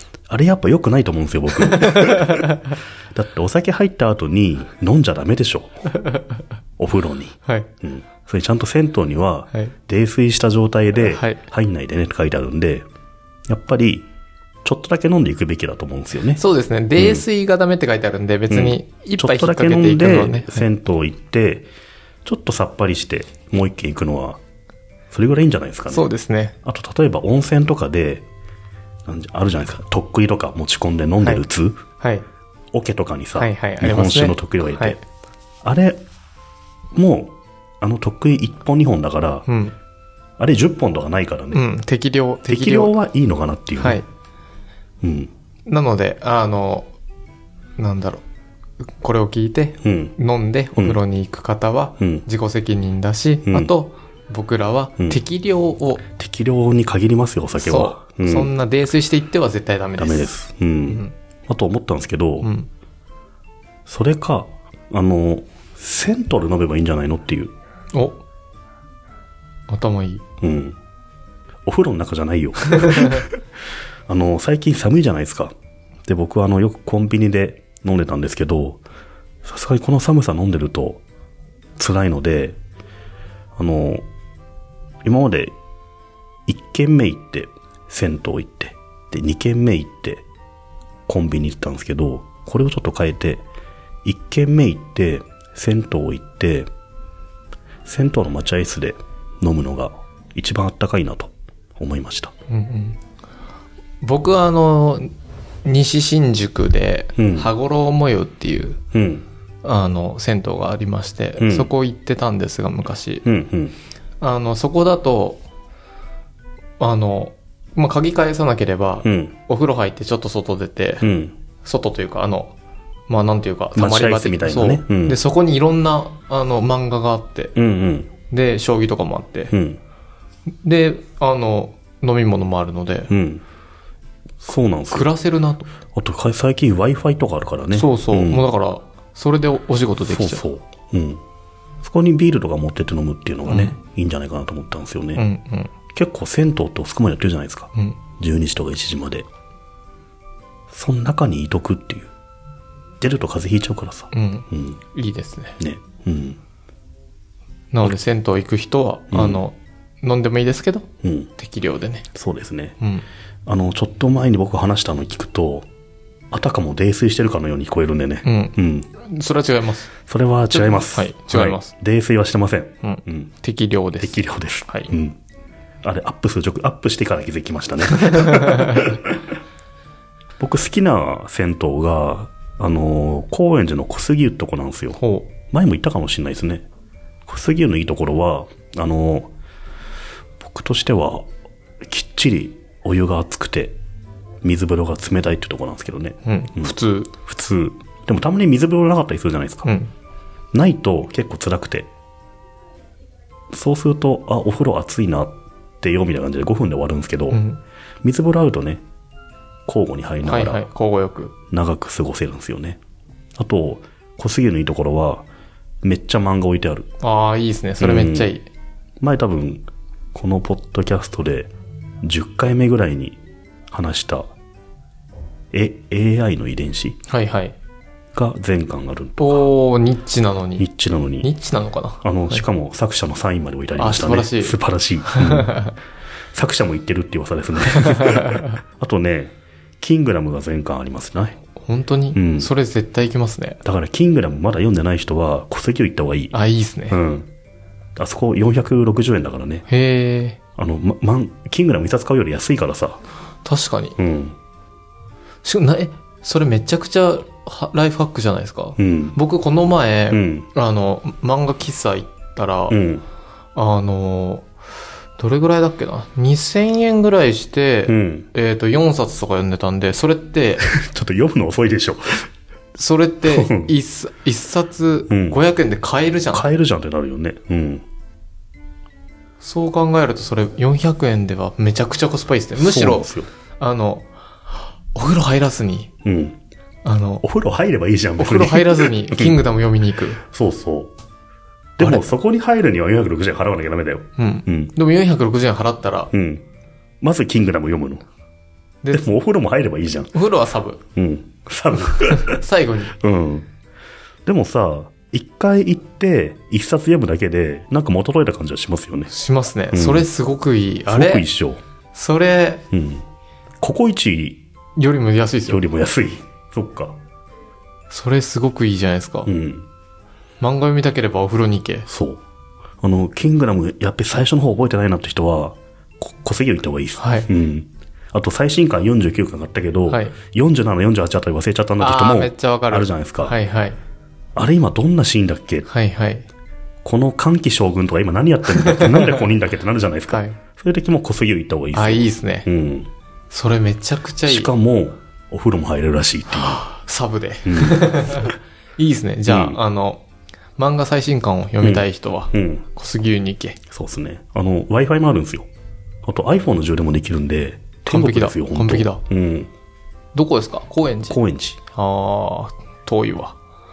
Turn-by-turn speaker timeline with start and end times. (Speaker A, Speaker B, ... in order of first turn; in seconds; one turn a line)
Speaker A: 0.3-5.8
Speaker B: 1.7-2.4
Speaker A: 6.8-12.9
Speaker B: 11.0-11.4
Speaker A: 13.5-14.1
Speaker A: 14.6-16.4
Speaker B: 16.3-20.7
Speaker A: 17.0-17.2
Speaker A: 18.5-21.7
Speaker A: 22.2-24.4
Speaker A: 25.1-26.1
Speaker B: 25.9-26.6
Speaker A: 26.6-28.3
Speaker A: 29.1-31.8
Speaker B: 32.0-32.2
Speaker A: 32.7-35.0
Speaker B: 33.4-35.0
Speaker A: 35.6-36.0
Speaker A: 36.9-39.5
Speaker B: 39.5-39.8
Speaker A: 40.4-41.6
Speaker B: 41.5-42.9
Speaker A: 42.5-44.0
Speaker B: 43.8-44.0
Speaker A: 45.0-45.3
Speaker B: 45.7-46.9
Speaker B: 47.8-48.2
Speaker B: 48.8-56.0
Speaker A: 49.8-50.1
Speaker A: 52.0-52.2
Speaker A: 56.0-58.5
Speaker B: 57.6-60.3
Speaker A: 60.0-62.5
Speaker B: 60.9-61.1
Speaker B: 62.4-62.7
Speaker A: 63.9-67.5
Speaker B: 67.9-68.2
Speaker B: 69.7-70.2
Speaker A: 70.4-70.8
Speaker A: 71.7-73.4
Speaker A: 74.1-75.5
Speaker A: 76.1-78.8
Speaker A: 79.4-81.0
Speaker A: 81.8-82.6
Speaker A: 83.6-84.0
Speaker A: 85.0-85.5
Speaker A: 86.5-90.2
Speaker A: 91.1-93.5
Speaker A: 94.0-96.7
Speaker A: 97.8-102.3
Speaker B: 102.5-103.0
Speaker B: 104.0-105.1
Speaker B: 105.6-108.8
Speaker A: 107.2-107.5
Speaker A: 108.9-109.2
Speaker B: 109.6-113.2
Speaker A: 111.4-111.7
Speaker A: 113.2-113.7
Speaker B: 114.2-115.4
Speaker B: 116.8-121.0
Speaker A: 119.0-119.3
Speaker A: 121.0-121.3
Speaker B: 121.6-122.5
Speaker B: 123.1-127.5
Speaker A: 123.7-125.2
Speaker A: 127.5-128.1
Speaker B: 128.3-129.5
Speaker A: 129.5-129.8
Speaker B: 130.6-133.1
Speaker A: 133.1-133.4
Speaker A: 134.4-135.1
Speaker B: 134.9-135.7
Speaker A: 135.9-138.4
Speaker B: 137.7-140.4
Speaker A: 140.0-141.2
Speaker A: 141.8-145.2
Speaker B: 143.5-143.7
Speaker B: 145.2-145.7
Speaker A: 145.9-149.2
Speaker A: 150.7-152.1
Speaker A: 153.0-154.8
Speaker B: 154.1-155.6
Speaker A: 155.6-156.4
Speaker B: 157.7-162.1
Speaker A: 159.1-159.4
Speaker A: 161.0-161.3
Speaker A: 162.1-162.8
Speaker B: 162.8-163.1
Speaker A: 163.4-165.7
Speaker A: 166.3-168.9
Speaker B: 168.2-169.9
Speaker A: 170.1-173.3
Speaker B: 170.5-171.7
Speaker B: 172.8-174.9
Speaker A: 174.0-175.2
Speaker A: 175.8-179.2
Speaker B: 178.1-178.6
Speaker A: 180.4-186.7
Speaker B: 185.0-185.3
Speaker A: 187.3-189.3
Speaker A: 190.4-191.2
Speaker A: 191.9-193.8
Speaker A: 194.4-199.7
Speaker B: 196.2-197.2
Speaker B: 199.6-199.9
Speaker A: 200.5-201.9
Speaker A: 203.5-207.4
Speaker B: 207.3-207.6
Speaker A: 208.0-208.8
Speaker A: 209.7-210.7
Speaker B: 210.2-211.3
Speaker A: 211.5-212.8
Speaker A: 213.4-215.2
Speaker A: 215.8-216.9
Speaker B: 217.0-218.4
Speaker A: 217.8-218.3
Speaker A: 219.0-221.5
Speaker A: 222.0-223.2
Speaker A: 223.7-224.3
Speaker A: 225.5-227.0
Speaker B: 227.1-227.6
Speaker A: 228.1-229.5
Speaker B: 229.2-230.7
Speaker A: 230.6-231.3
Speaker B: 231.2-232.4
Speaker A: 232.0-235.7
Speaker B: 233.8-235.7
Speaker A: 236.3-241.4
Speaker B: 241.6-243.6
Speaker A: 242.1-242.5
Speaker A: 243.6-246.3
Speaker B: 246.3-247.0
Speaker A: 246.9-247.3
Speaker A: 248.0-249.6
Speaker B: 249.7-250.4
Speaker A: 250.6-253.0
Speaker B: 253.4-253.9
Speaker A: 254.0-254.3
Speaker B: 255.4-262.8
Speaker A: 258.8-259.2
Speaker A: 260.1-260.5
Speaker A: 262.7-263.0
Speaker B: 263.5-264.5
Speaker B: 265.2-270.6
Speaker A: 267.9-268.3
Speaker A: 270.6-272.2
Speaker B: 272.7-276.5
Speaker A: 273.2-273.7
Speaker A: 275.1-275.4
Speaker A: 276.3-277.8
Speaker B: 279.4-284.1
Speaker A: 282.6-283.3
Speaker B: 284.9-285.9
Speaker A: 286.0-286.4
Speaker B: 286.8-287.2
Speaker A: 287.2-289.4
Speaker B: 288.2-290.2
Speaker A: 290.2-290.9
Speaker A: 291.8-294.7
Speaker B: 291.8-292.1
Speaker B: 294.2-296.1
Speaker A: 296.1-296.4
Speaker A: 297.0-298.0
Speaker A: 298.9-300.1
Speaker B: 300.1-300.8
Speaker A: 300.9-302.4
Speaker B: 302.1-302.9
Speaker A: 302.9-303.5
Speaker A: 304.2-309.1
Speaker B: 309.1-311.2
Speaker A: 309.7-310.1
Speaker A: 310.9-311.6
Speaker B: 311.9-312.6
Speaker A: 312.7-313.0
Speaker A: 313.6-314.4
Speaker B: 314.8-315.6
Speaker A: 315.5-317.0
Speaker B: 317.9-319.3
Speaker A: 319.2-319.6
Speaker B: 320.4-321.9
Speaker A: 321.9-322.2
Speaker A: 322.8-333.3
Speaker B: 327.0-327.3
Speaker B: 329.9-330.1
Speaker B: 331.8-333.8
Speaker A: 334.4-335.7
Speaker B: 335.7-336.2
Speaker A: 336.8-342.9
Speaker B: 338.6-339.0
Speaker B: 340.1-340.4
Speaker B: 341.7-342.5
Speaker B: 343.3-344.5
Speaker A: 344.2-346.6
Speaker B: 346.3-350.0
Speaker A: 347.4-348.3
Speaker A: 349.3-349.6
Speaker B: 350.6-353.6
Speaker A: 351.6-352.6
Speaker A: 353.7-355.5
Speaker A: 356.0-359.5
Speaker B: 357.9-359.0
Speaker B: 360.1-361.2
Speaker A: 361.1-361.6
Speaker B: 361.7-363.4